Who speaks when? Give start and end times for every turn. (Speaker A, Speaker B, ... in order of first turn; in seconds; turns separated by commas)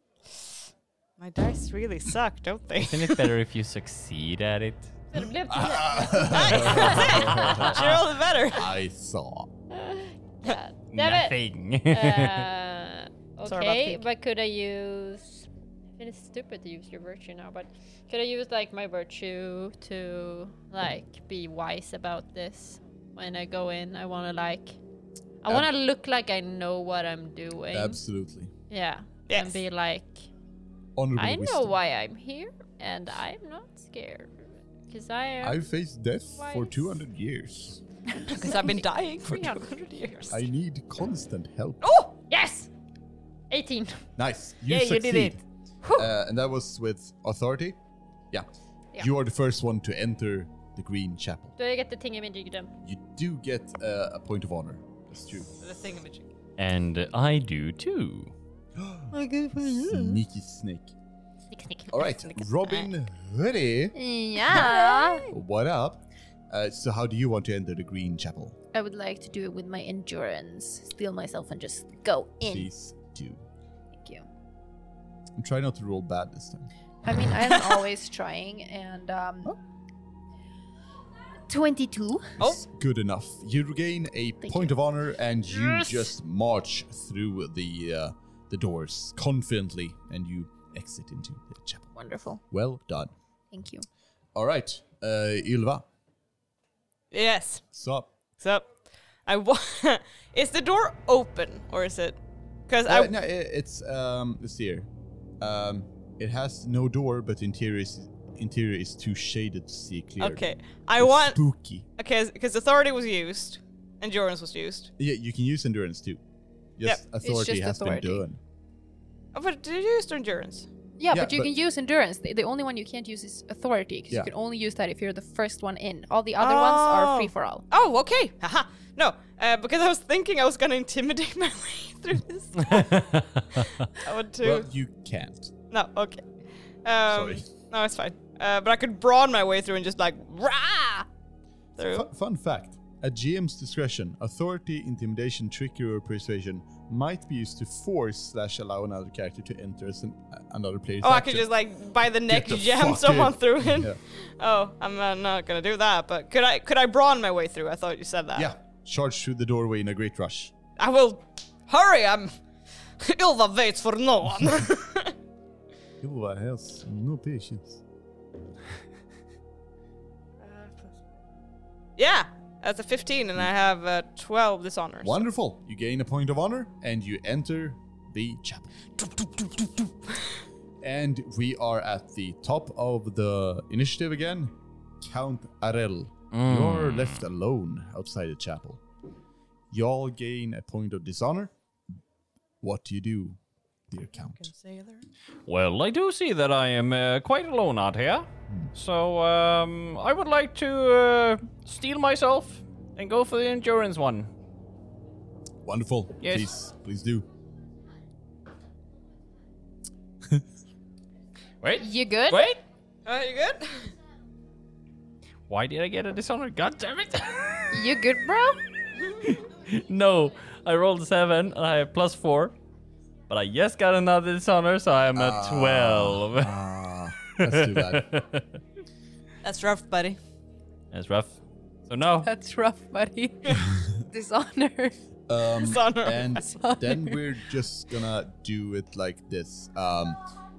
Speaker A: 1.2-3.3, Speaker B: 2.8-4.9, Speaker C: 5.1-7.5, Speaker D: 5.5-9.5, Speaker A: 6.5-8.7, Speaker B: 7.3-8.0, Speaker C: 9.7-11.4, Speaker B: 10.9-12.5, Speaker C: 11.9-15.5, Speaker A: 13.4-14.0, Speaker C: 16.0-24.8, Speaker C: 25.4-28.0, Speaker D: 27.7-28.5, Speaker C: 28.7-30.3, Speaker A: 29.3-29.6, Speaker D: 30.9-31.8, Speaker C: 31.1-35.6, Speaker D: 35.4-37.8, Speaker C: 36.3-37.0, Speaker A: 38.3-40.4, Speaker C: 38.3-40.4, Speaker D: 40.3-41.9, Speaker A: 41.8-42.1, Speaker C: 42.3-42.7, Speaker C: 43.5-44.0, Speaker D: 44.2-45.4, Speaker A: 44.7-45.4, Speaker D: 45.9-47.8, Speaker D: 48.3-51.5, Speaker C: 51.6-52.7, Speaker D: 52.8-55.6, Speaker A: 55.6-56.3, Speaker B: 56.6-58.3, Speaker D: 58.8-60.9, Speaker E: 59.1-60.2, Speaker C: 61.5-62.5, Speaker D: 61.9-63.9, Speaker E: 63.9-65.2, Speaker C: 64.5-65.2, Speaker D: 65.3-68.6, Speaker E: 68.7-72.7, Speaker D: 72.4-73.4, Speaker E: 73.9-74.2, Speaker D: 75.3-76.7, Speaker E: 77.0-79.5, Speaker A: 77.5-77.8, Speaker E: 81.5-82.4, Speaker D: 82.5-91.9, Speaker E: 84.4-84.7, Speaker E: 91.9-92.4, Speaker D: 92.5-93.1, Speaker E: 93.5-93.9, Speaker D: 94.3-95.8, Speaker A: 97.1-97.6, Speaker D: 97.7-98.1, Speaker A: 98.4-98.7, Speaker A: 99.2-103.1, Speaker D: 102.8-104.9, Speaker D: 105.4-111.8, Speaker A: 110.2-111.4, Speaker A: 112.0-114.9, Speaker D: 115.0-116.2, Speaker D: 116.8-118.4, Speaker E: 117.2-118.2, Speaker A: 119.3-120.7, Speaker E: 121.0-127.7, Speaker D: 121.1-121.5, Speaker A: 126.4-134.7, Speaker B: 132.6-133.7, Speaker D: 134.4-135.5, Speaker A: 135.7-136.3, Speaker A: 136.8-141.1, Speaker D: 137.1-137.4, Speaker A: 141.8-142.1, Speaker D: 141.8-151.5, Speaker A: 151.0-158.5, Speaker D: 152.3-154.0, Speaker D: 158.3-160.5, Speaker A: 160.8-162.4, Speaker A: 163.0-165.1, Speaker D: 166.0-167.8, Speaker A: 170.4-170.9, Speaker A: 172.0-175.2, Speaker D: 175.0-179.5, Speaker D: 180.8-188.8, Speaker B: 186.3-187.2, Speaker D: 189.7-191.5, Speaker D: 192.6-193.4, Speaker D: 193.9-194.5, Speaker A: 194.3-195.0, Speaker B: 195.5-204.3, Speaker D: 205.6-207.2, Speaker B: 206.2-206.5, Speaker B: 211.6-212.6, Speaker E: 211.8-212.6, Speaker A: 213.1-213.9, Speaker B: 215.5-217.8, Speaker E: 217.7-218.6, Speaker B: 219.2-222.6, Speaker B: 223.3-226.5, Speaker D: 225.1-228.1, Speaker B: 227.3-228.5, Speaker A: 229.4-230.2, Speaker B: 230.9-232.3, Speaker E: 232.2-234.9, Speaker D: 235.3-240.2, Speaker A: 235.6-236.5, Speaker E: 236.5-237.2